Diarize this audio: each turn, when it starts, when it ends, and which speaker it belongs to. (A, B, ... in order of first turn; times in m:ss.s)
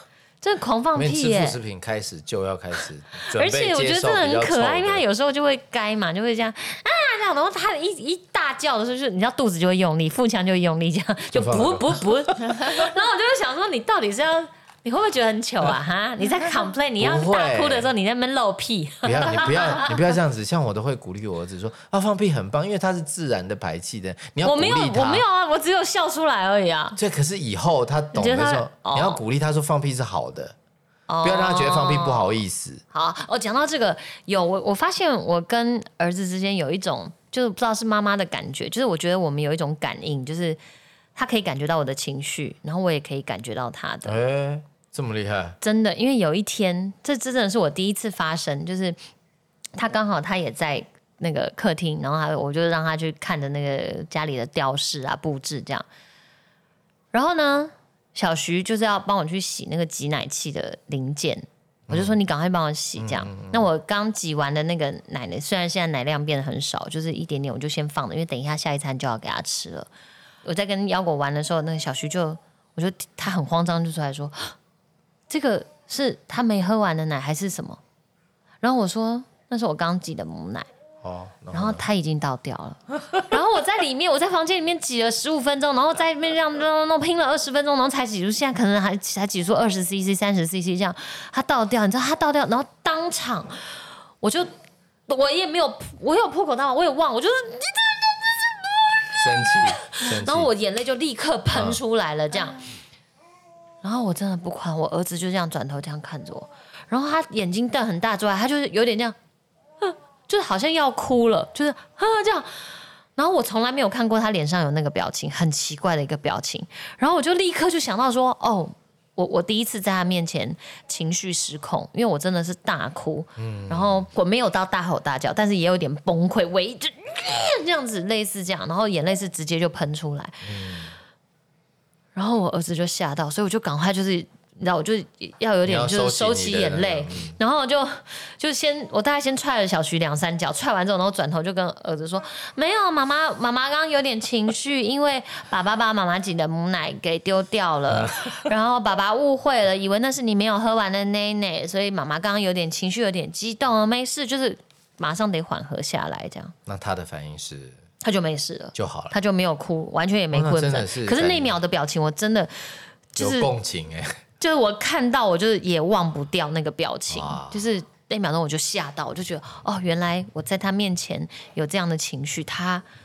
0:00.4-0:01.6 A
0:00.9-0:05.0 B
0:03.3-0:20.0 A
0:11.3-0:12.8 B
0:17.0-0:17.9 B
0:19.0-0:25.2 B
0:24.4-0:27.0 A
0:27.0-0:30.6 B
0:28.1-0:29.2 A
0:31.1-0:32.3 A
0:31.2-0:32.8 B
0:32.9-0:40.6 A
0:41.1-0:44.2 A
0:44.0-0:45.6 B
0:45.6-0:49.0 A
0:49.8-0:55.8 A
0:57.1-1:09.9 A
1:01.9-1:02.1 B
1:03.0-1:03.7 B
1:10.4-1:14.5 A
1:15.3-1:17.8 A
1:18.6-1:20.7 A
1:21.0-1:21.8 B
1:21.5-1:33.6 A
1:34.2-1:34.5 A
1:35.1-1:42.6 A
1:39.2-1:40.5 B
1:41.5-1:41.8 B
1:43.8-1:49.1 A
1:49.8-1:52.6 A
1:53.2-2:10.5 A
2:03.4-2:04.1 B
2:10.4-2:10.9 B
2:12.2-2:36.5 A
2:15.6-2:17.4 B
2:27.9-2:28.4 B
2:36.6-2:37.8 B
2:38.0-2:43.5 A
2:38.7-2:39.2 B
2:40.3-2:41.6 B
2:43.2-2:44.2 B
2:44.4-2:52.8 A
2:47.1-2:47.6 B